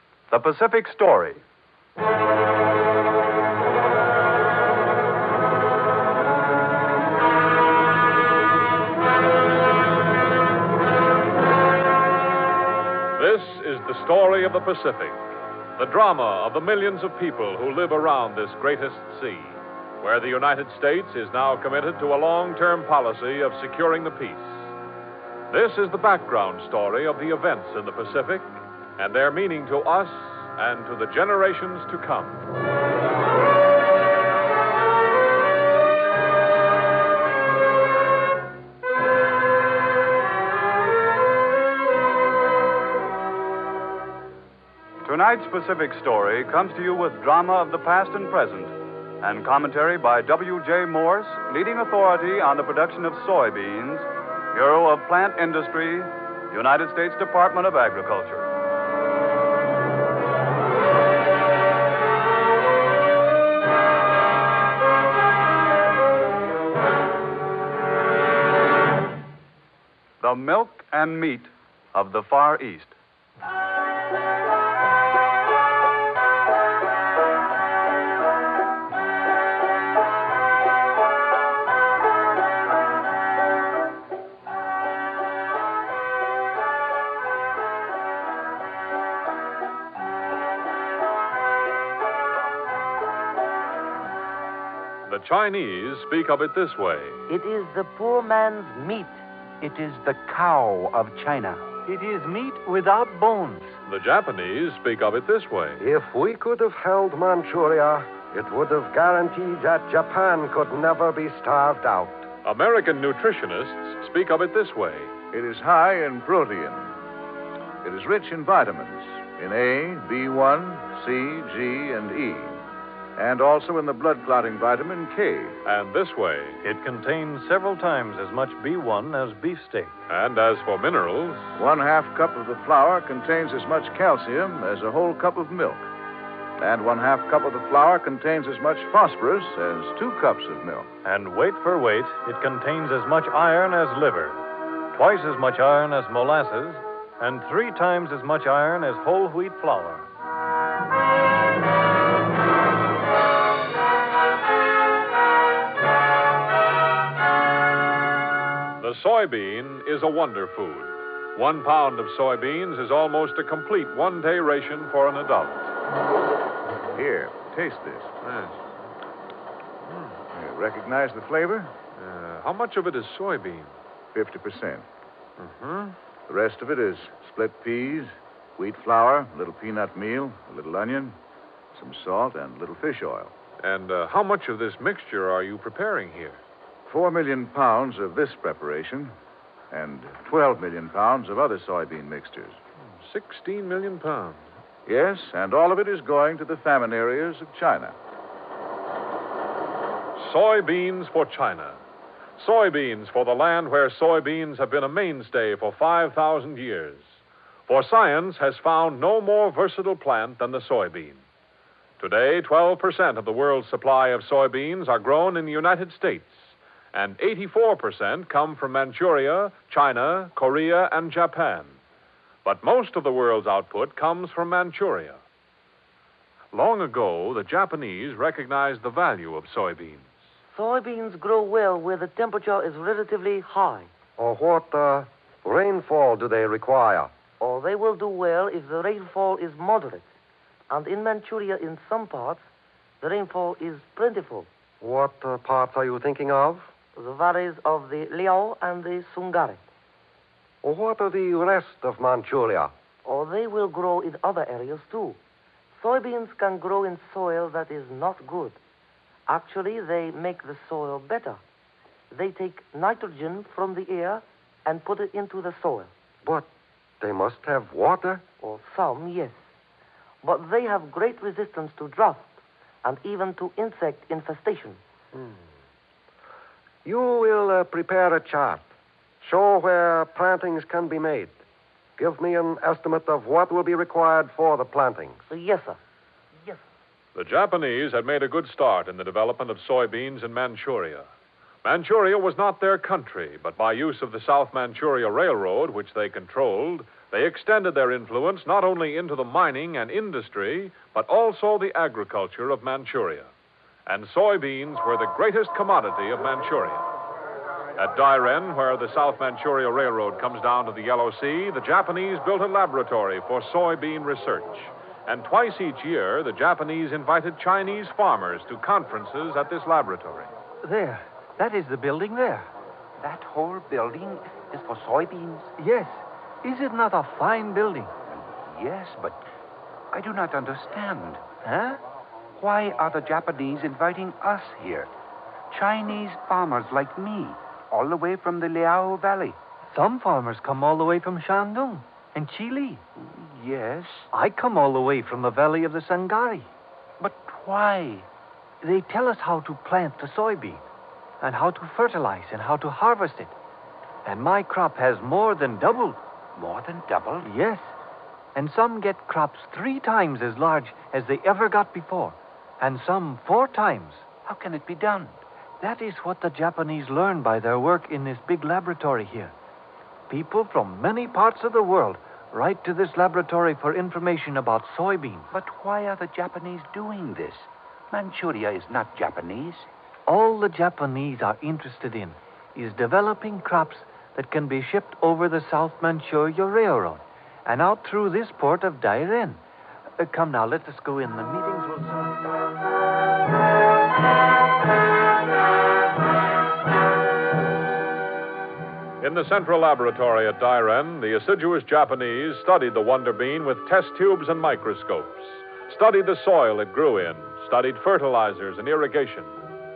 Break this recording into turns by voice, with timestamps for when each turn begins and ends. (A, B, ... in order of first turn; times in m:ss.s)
0:00.3-0:01.4 A
0:13.1-0:15.2 B
0:15.8-0:24.7 B
0:25.5-0:32.4 B
0:45.0-0:58.5 A
1:10.2-1:12.9 A
1:35.1-1:37.2 B
1:37.3-1:39.2 C
1:39.6-1:41.8 D
1:41.8-1:43.7 E
1:43.8-1:45.8 B
1:45.8-1:52.3 F
1:52.4-1:55.1 B
1:55.3-1:57.0 G
1:57.8-2:02.6 G
2:03.2-2:05.6 G
2:05.6-2:06.6 B
2:06.6-2:10.0 H
2:10.1-2:11.5 B
2:11.6-2:15.9 G
2:16.6-2:20.9 G
2:21.0-2:30.1 H
2:38.8-2:45.7 B
2:46.9-2:48.1 G
2:48.2-2:48.6 B
2:50.3-2:51.7 G
2:52.0-2:53.7 B
2:54.1-2:54.8 G
2:55.4-2:56.0 B
2:56.3-3:01.2 G
3:01.7-3:03.3 G
3:03.6-3:06.4 B
3:06.9-3:09.1 G
3:09.7-3:12.6 G
3:13.0-3:14.4 B
3:14.8-3:17.9 G
3:20.2-3:21.8 B
3:22.4-3:31.2 B
3:32.0-3:41.8 B
3:42.4-3:45.2 B
3:46.5-3:50.1 B
3:50.5-3:53.9 C
3:54.2-3:57.1 F
3:57.4-4:00.1 C
4:00.7-4:02.5 C
4:03.0-4:04.5 C
4:04.8-4:06.7 F
4:06.9-4:09.6 C
4:10.6-4:12.7 F
4:13.0-4:15.2 C
4:15.7-4:18.6 C
4:19.3-4:21.4 C
4:22.1-4:25.9 C
4:27.0-4:28.2 F
4:28.4-4:29.5 C
4:30.2-4:32.3 C
4:32.8-4:34.8 C
4:35.1-4:35.4 F
4:36.8-4:38.7 F
4:39.2-4:41.4 F
4:42.0-4:45.3 F
4:45.3-4:45.8 C
4:47.1-4:51.1 B
4:51.6-5:03.3 B
5:03.8-5:06.9 B
5:07.8-5:20.3 B
5:20.6-5:22.5 E
5:23.0-5:25.5 D
5:25.6-5:27.9 E
5:28.1-5:29.2 D
5:29.9-5:31.2 D
5:31.4-5:31.8 E
5:32.4-5:34.9 D
5:35.5-5:39.4 D
5:39.7-5:42.8 E
5:43.0-5:44.1 D
5:44.1-5:46.5 E
5:47.0-5:48.1 D
5:48.6-5:50.6 E
5:51.2-5:53.4 E
5:54.0-5:56.0 E
5:56.4-5:57.3 D
5:57.2-5:57.8 E
5:58.3-6:04.1 E
6:04.2-6:05.2 D
6:05.6-6:09.3 E
6:10.1-6:15.3 E
6:15.3-6:19.7 D
6:20.1-6:29.4 E
6:30.0-6:32.2 E
6:39.0-6:49.3 B